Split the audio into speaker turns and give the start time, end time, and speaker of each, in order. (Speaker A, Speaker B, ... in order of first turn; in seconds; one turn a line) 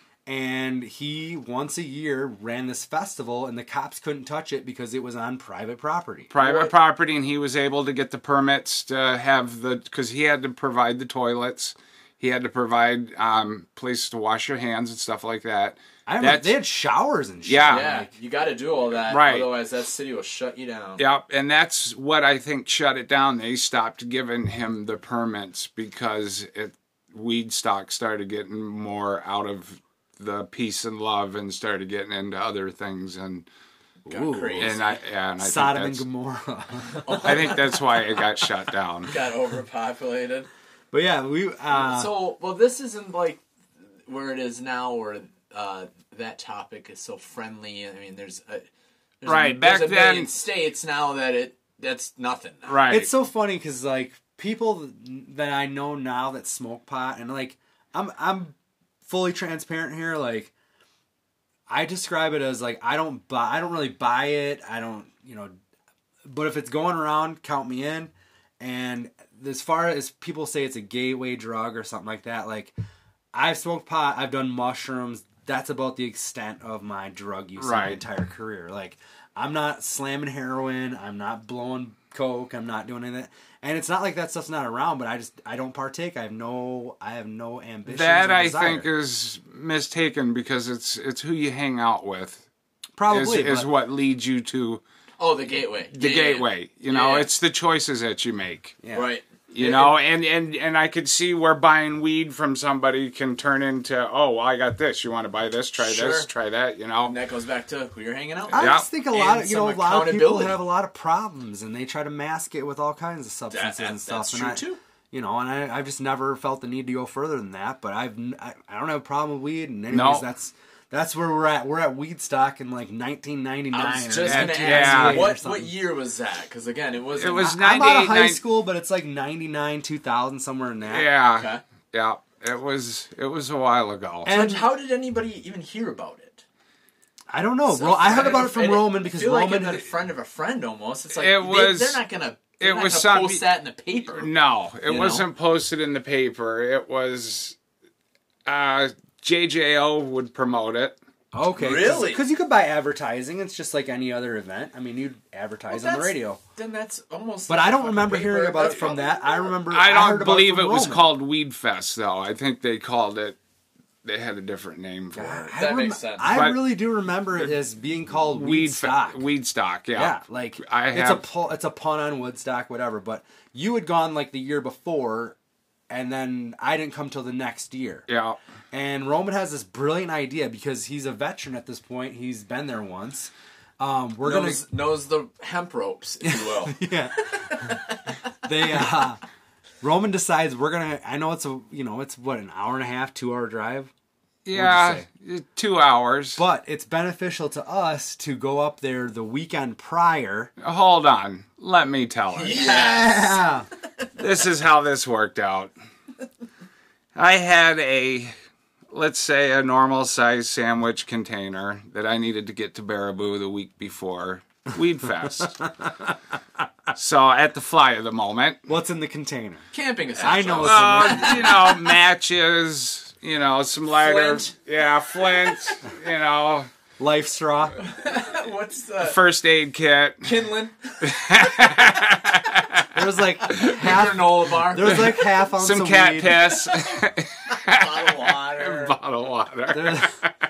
Speaker A: 0.3-6.3
Speaker B: 6.3-16.5
Speaker C: 6.4-6.7
Speaker A: 16.1-18.1
Speaker B: 17.4-17.9
Speaker C: 17.7-21.0
Speaker B: 19.1-19.5
Speaker B: 21.0-33.5
Speaker A: 34.1-34.8
Speaker C: 34.1-35.0
Speaker B: 34.6-36.0
Speaker A: 35.4-37.6
Speaker C: 36.9-37.8
Speaker B: 37.2-39.1
Speaker C: 39.1-40.5
Speaker A: 40.9-42.1
Speaker C: 41.7-43.4
Speaker C: 44.1-48.7
Speaker C: 49.2-52.8
Speaker B: 49.3-50.3
Speaker B: 52.7-53.1
Speaker A: 52.9-58.5
Speaker A: 59.1-60.5
Speaker A: 61.7-65.5
Speaker A: 66.3-72.7
Speaker A: 73.3-88.9
Speaker B: 77.6-78.0
Speaker B: 87.9-92.4
Speaker A: 93.0-93.7
Speaker B: 93.1-94.8
Speaker C: 95.2-97.3
Speaker B: 95.9-98.8
Speaker C: 98.9-100.0
Speaker B: 99.5-107.2
Speaker C: 105.8-106.3
Speaker C: 107.0-110.6
Speaker A: 108.5-125.7
Speaker B: 108.5-108.8
Speaker C: 113.5-114.8
Speaker B: 119.9-120.2
Speaker C: 123.7-127.6
Speaker B: 124.2-125.3
Speaker B: 127.2-128.4
Speaker A: 127.4-131.1
Speaker B: 130.9-134.3
Speaker C: 131.3-131.6
Speaker A: 134.2-134.7
Speaker C: 134.3-136.4
Speaker A: 137.3-139.8
Speaker C: 137.7-144.3
Speaker B: 141.1-142.0
Speaker B: 142.6-143.4
Speaker B: 144.1-147.6
Speaker C: 144.8-145.2
Speaker B: 148.4-151.0
Speaker A: 151.3-156.4
Speaker C: 151.6-152.2
Speaker C: 155.7-159.5
Speaker A: 157.5-161.1
Speaker B: 159.7-163.4
Speaker B: 164.0-165.5
Speaker A: 165.1-169.2
Speaker C: 165.5-166.3
Speaker B: 166.3-166.6
Speaker B: 168.2-171.2
Speaker A: 169.9-175.4
Speaker A: 175.9-178.1
Speaker B: 178.1-178.4
Speaker A: 178.7-184.6
Speaker C: 184.2-188.0
Speaker A: 186.2-187.8
Speaker A: 188.4-189.2
Speaker A: 189.8-193.9
Speaker B: 194.4-196.4
Speaker A: 194.5-195.1
Speaker A: 196.4-200.5
Speaker B: 200.6-202.7
Speaker C: 202.3-203.4
Speaker A: 202.5-203.7
Speaker B: 204.2-205.7
Speaker B: 207.2-208.3
Speaker B: 208.9-215.6
Speaker B: 216.9-218.6
Speaker A: 218.7-219.7
Speaker C: 219.7-221.7
Speaker A: 220.2-221.7
Speaker B: 220.6-226.7
Speaker C: 223.9-225.7
Speaker A: 227.0-227.8
Speaker C: 227.8-229.2
Speaker B: 229.0-230.3
Speaker C: 230.2-231.8
Speaker B: 231.0-232.9
Speaker A: 232.9-236.5
Speaker C: 233.5-235.2
Speaker B: 235.5-240.3
Speaker C: 237.6-239.0
Speaker A: 239.7-240.1